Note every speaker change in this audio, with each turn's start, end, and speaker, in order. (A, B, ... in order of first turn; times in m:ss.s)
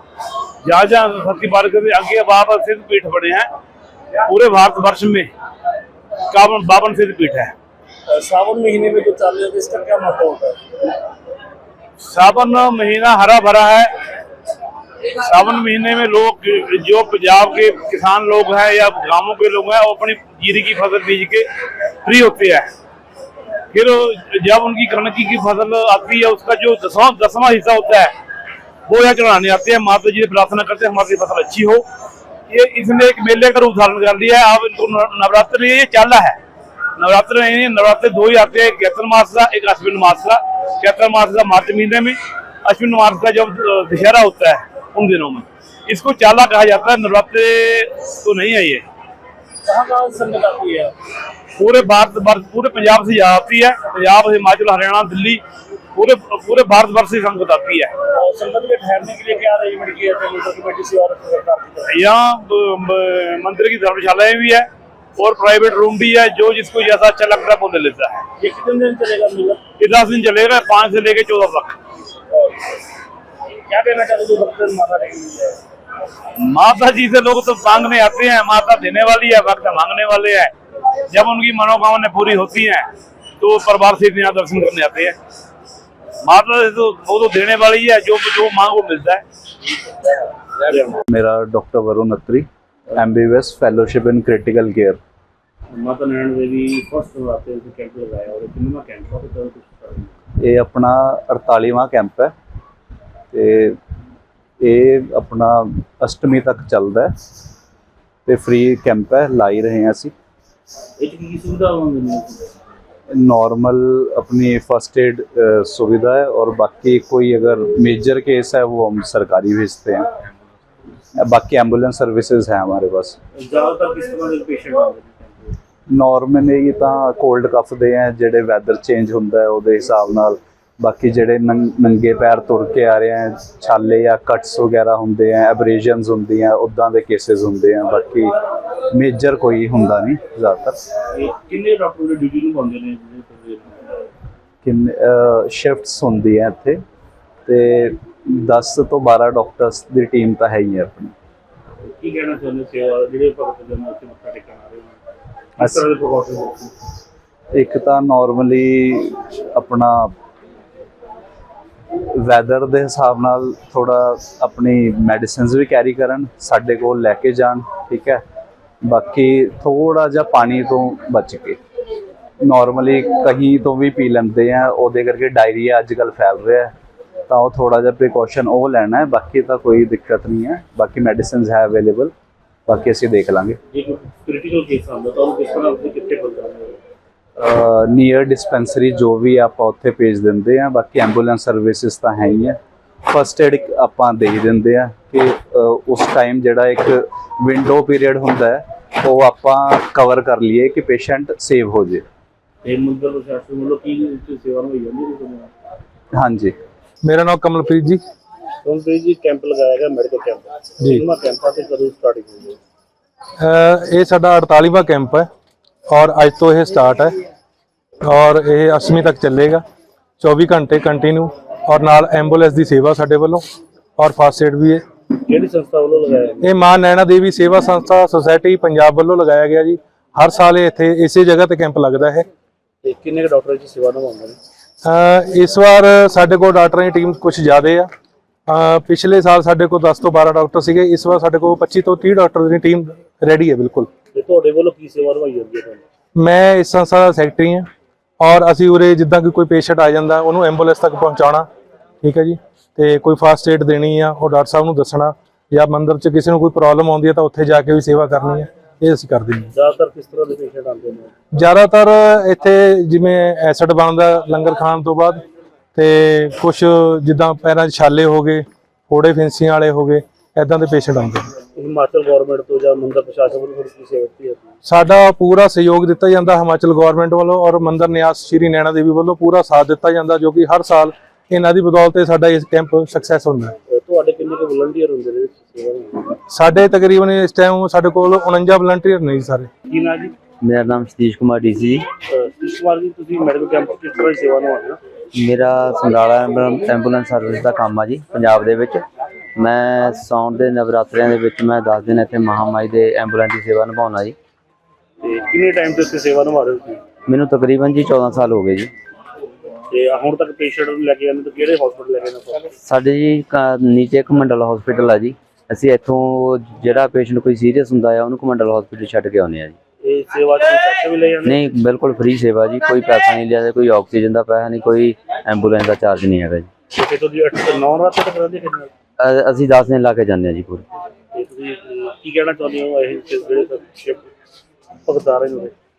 0:00.6-0:03.5 A
0:04.3-0:05.3 A
0:06.3-0:07.5 A
0:08.1-0:10.6 B
0:12.0-0:13.9 A
0:15.1-0:21.5 A
0:22.0-0:22.7 A
0:23.7-0:28.1 A
0:28.9-0:31.8 A
0:32.5-0:36.4 A
0:37.0-0:48.8 A
0:49.6-0:51.0 B
0:51.6-0:55.4 A
0:56.0-0:58.1 A
0:58.1-1:01.9 B
1:01.9-1:08.3 A
1:08.4-1:09.7 B
1:09.8-1:11.8 A
1:13.7-1:15.6 B
1:16.4-1:20.5 A
1:21.1-1:22.9 A
1:23.4-1:25.2 A
1:26.2-1:29.2 A
1:30.7-1:31.0 B
1:31.1-1:35.0 C
1:35.7-1:40.2 B
1:40.4-1:42.3 C
1:43.3-1:43.8 C
1:44.6-1:47.1 C
1:48.3-1:50.1 C
1:51.0-1:52.5 B
1:53.1-2:00.1 C
2:01.2-2:03.2 C
2:03.4-2:05.6 B
2:05.9-2:20.8 C
2:21.2-2:23.9 B
2:24.6-2:26.8 C
2:27.5-2:31.1 C
2:31.8-2:35.0 B
2:35.6-2:36.8 B
2:37.5-2:40.1 C
2:42.0-2:48.2 C
2:48.8-2:51.6 C
2:52.4-2:56.7 C
2:57.3-3:02.1 C
3:02.7-3:03.6 C
3:03.7-3:06.8 B
3:07.4-3:22.0 C
3:22.6-3:25.5 B
3:26.1-3:26.6 C
3:27.0-3:28.0 D
3:28.6-3:32.6 B
3:30.8-3:31.0 D
3:33.4-3:35.3 D
3:35.9-3:37.2 D
3:38.0-3:39.6 D
3:40.2-3:43.4 D
3:44.0-3:44.8 D
3:45.2-3:46.4 B
3:46.4-3:52.3 D
3:52.8-3:54.4 B
3:54.8-3:57.9 D
3:58.5-4:03.9 D
4:04.1-4:05.8 B
4:06.2-4:07.7 D
4:08.2-4:11.5 D
4:12.0-4:19.5 D
4:19.5-4:21.1 B
4:21.3-4:25.2 D
4:25.8-4:31.3 D
4:31.5-4:34.6 B
4:34.6-4:43.6 D
4:43.7-4:46.2 B
4:46.3-4:49.5 D
4:49.7-4:50.1 B
4:50.4-4:51.8 E
4:52.1-4:54.8 B
4:55.1-4:58.8 E
4:59.4-5:04.2 E
5:05.0-5:06.8 B
5:07.1-5:08.7 E
5:09.7-5:12.6 B
5:12.6-5:19.6 E
5:19.8-5:21.4 B
5:21.2-5:26.5 E
5:26.7-5:28.7 B
5:29.0-5:30.7 E
5:31.1-5:34.0 B
5:34.9-5:35.5 B